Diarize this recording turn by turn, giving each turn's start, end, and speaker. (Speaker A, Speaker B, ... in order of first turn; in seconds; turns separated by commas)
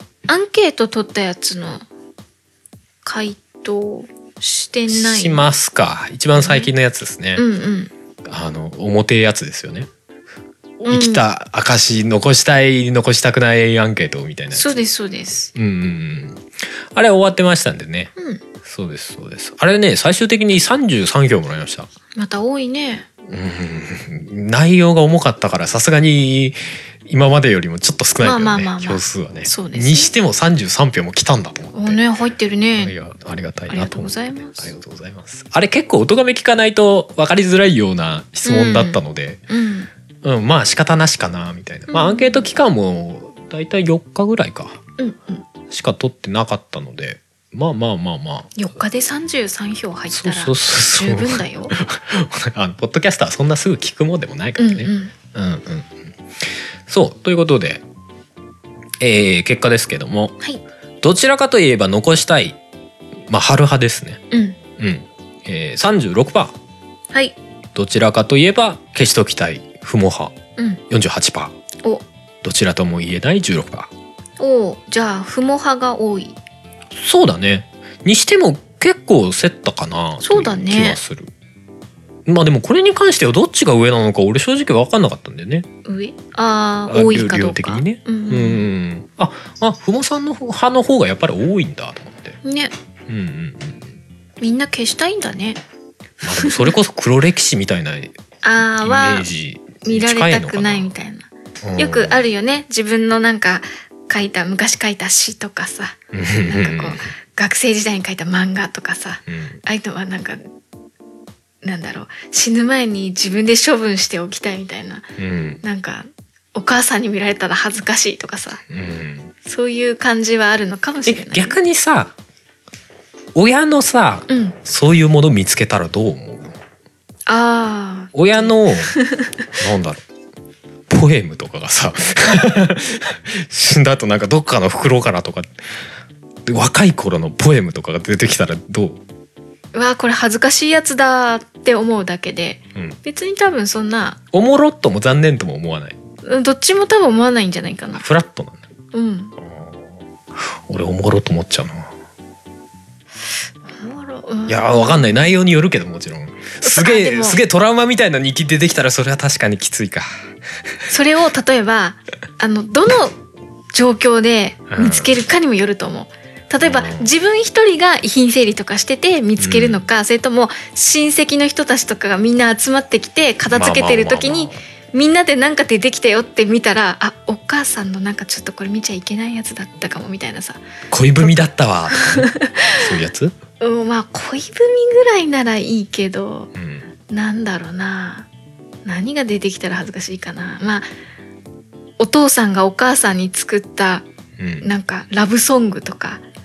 Speaker A: 0.3-1.9, Speaker A: 3.0-5.5, Speaker B: 4.9-7.4, Speaker A: 6.3-6.7, Speaker A: 7.3-7.9, Speaker B: 8.2-9.9, Speaker B: 10.8-14.8, Speaker A: 10.8-11.2, Speaker A: 14.5-15.5, Speaker B: 15.5-18.1, Speaker A: 18.2-18.4, Speaker B: 18.6-21.9, Speaker A: 22.1-23.1, Speaker B: 23.3-32.0, Speaker A: 28.2-30.1, Speaker A: 31.7-32.9, Speaker B: 32.8-39.4, Speaker A: 33.7-34.7, Speaker A: 38.4-39.9, Speaker B: 40.2-44.8, Speaker A: 41.9-42.5, Speaker A: 45.0-45.4, Speaker B: 45.7-48.7, Speaker A: 48.5-51.7, Speaker B: 50.1-56.0, Speaker A: 54.6-55.1, Speaker B: 56.9-57.8, Speaker B: 59.0-60.4, Speaker B: 61.0-62.6, Speaker B: 63.3-64.2, Speaker A: 64.3-64.6, Speaker B: 64.8-66.5, Speaker A: 67.1-67.4, Speaker B: 67.7-70.4, Speaker A: 70.6-70.8, Speaker B: 70.9-71.5, Speaker B: 72.4-73.9, Speaker A: 74.4-76.4, Speaker B: 77.0-81.3, Speaker A: 80.2-81.0, Speaker B: 82.2-85.7, Speaker A: 85.8-88.7, Speaker B: 86.9-92.4, Speaker A: 92.4-92.7, Speaker B: 93.1-93.9, Speaker A: 94.4-95.6, Speaker B: 96.2-98.1, Speaker A: 96.4-96.7, Speaker A: 98.4-99.3, Speaker B: 98.8-100.9, Speaker A: 99.8-110.4, Speaker B: 101.6-102.2, Speaker B: 106.1-107.1, Speaker B: 109.2-109.6, Speaker A: 111.6-115.1, Speaker B: 115.2-115.6, Speaker A: 115.6-118.6, Speaker B: 118.7-119.3, Speaker A: 119.4-121.6, Speaker B: 121.0-122.1, Speaker B: 123.3-126.5, Speaker A: 124.3-124.5, Speaker A: 127.3-129.4, Speaker B: 128.1-128.9, Speaker B: 129.6-130.0, Speaker B: 130.9-135.5, Speaker B: 136.4-139.0, Speaker A: 139.7-144.2, Speaker B: 144.3-145.9, Speaker A: 146.2-148.0, Speaker B: 147.9-148.6, Speaker A: 148.9-149.3, Speaker B: 149.4-151.9, Speaker A: 153.6-155.3, Speaker B: 154.5-160.1, Speaker A: 156.6-157.4, Speaker A: 160.9-163.2, Speaker A: 163.7-180.6, Speaker B: 164.7-165.1, Speaker B: 166.6-167.1, Speaker B: 169.4-169.8, Speaker B: 173.5-174.6, Speaker B: 180.9-183.4, Speaker A: 181.2-182.9, Speaker A: 183.6-186.5, Speaker B: 186.5-186.9, Speaker A: 187.1-188.3, Speaker A: 188.8-190.9, Speaker A: 192.0-194.1, Speaker B: 194.4-194.7, Speaker A: 194.6-196.2